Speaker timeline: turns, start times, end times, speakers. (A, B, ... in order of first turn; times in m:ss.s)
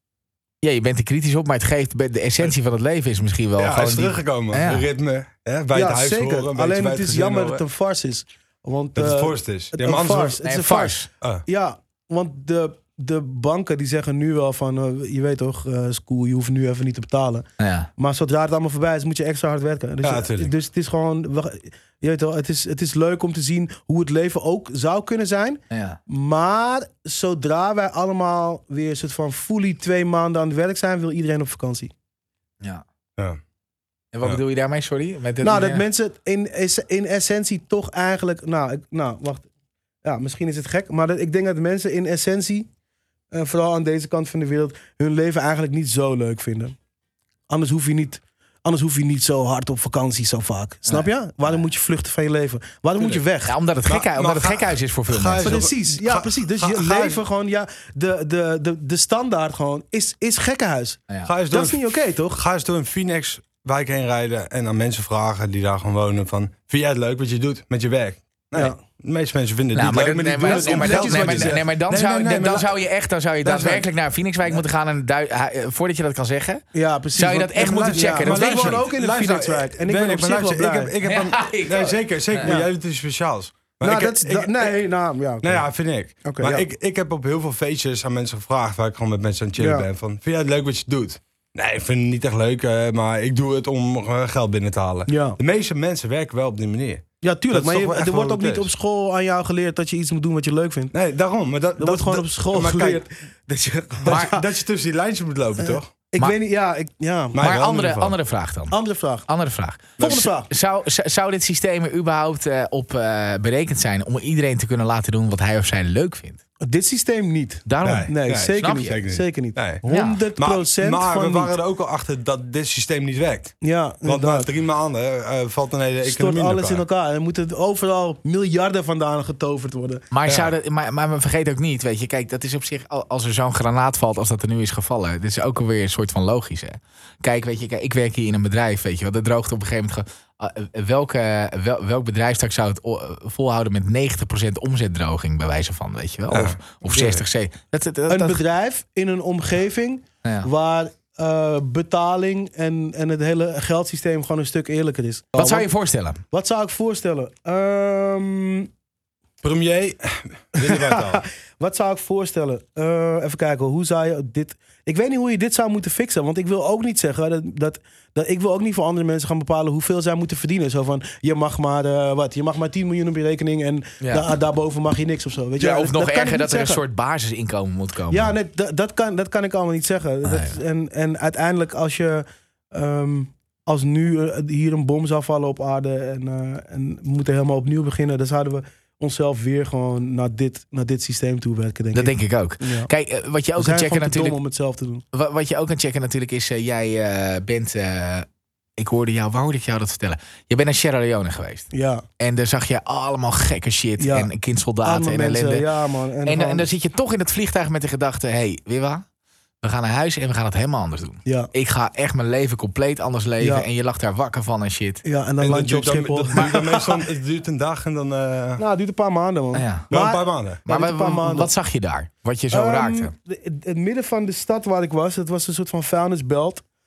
0:00.6-0:04.9 A
0:03.6-0:07.6 B
0:05.7-0:17.4 C
0:08.9-0:10.4 B
0:10.4-0:11.1 A
0:17.6-0:17.9 A
0:18.0-0:31.9 C
0:20.0-0:20.5 B
0:25.7-0:26.0 A
0:34.1-0:35.8 A
0:35.4-0:39.5 C
0:40.0-0:42.7 C
0:43.3-0:46.7 C
0:47.5-0:53.5 C
0:53.4-0:55.6 A
0:53.8-0:57.2 B
0:55.4-1:02.4 C
1:01.2-1:12.7 B
1:09.7-1:16.6 A
1:10.4-1:11.7 C
1:13.4-1:13.9 B
1:16.7-1:20.9 C
1:17.1-1:18.8 A
1:17.6-1:24.8 B
1:21.0-1:22.5 A
1:22.4-1:22.7 C
1:23.8-1:25.6 C
1:25.4-1:38.7 B
1:26.2-1:26.7 C
1:29.6-1:29.9 C
1:35.1-1:35.4 C
1:37.2-1:40.9 C
1:40.9-1:43.0 B
1:41.8-1:44.4 C
1:44.0-1:45.9 B
1:44.1-1:44.4 A
1:45.6-1:47.4 C
1:47.3-1:48.1 B
1:47.4-1:48.8 A
1:48.7-1:49.2 C
1:49.3-1:56.4 A
1:50.0-1:50.3 B
1:50.0-1:50.5 C
1:56.6-2:01.5 C
1:57.6-1:59.0 A
1:57.8-1:59.8 B
1:59.9-2:00.2 A
2:00.4-2:06.8 B
2:03.6-2:04.5 C
2:06.0-2:10.0 C
2:10.1-2:28.4 A
2:10.3-2:10.5 B
2:26.3-2:26.6 B
2:28.1-2:35.7 C
2:35.3-2:36.2 A
2:36.3-2:38.7 C
2:39.4-2:41.2 B
2:40.6-2:56.8 C
2:55.6-2:58.3 A
2:58.1-3:12.9 C
3:00.2-3:00.6 A
3:11.9-3:14.4 A
3:13.6-3:15.0 C
3:15.1-3:25.7 A
3:21.7-3:22.0 C
3:24.0-3:24.3 C
3:24.8-3:26.7 C
3:26.2-3:29.0 A
3:29.6-3:35.0 A
3:31.2-3:31.5 C
3:33.4-3:33.7 C
3:35.0-3:37.0 C
3:35.4-3:38.6 B
3:38.6-3:41.5 C
3:39.5-3:39.9 A
3:39.9-3:40.6 B
3:40.7-3:43.1 A
3:42.5-3:46.6 C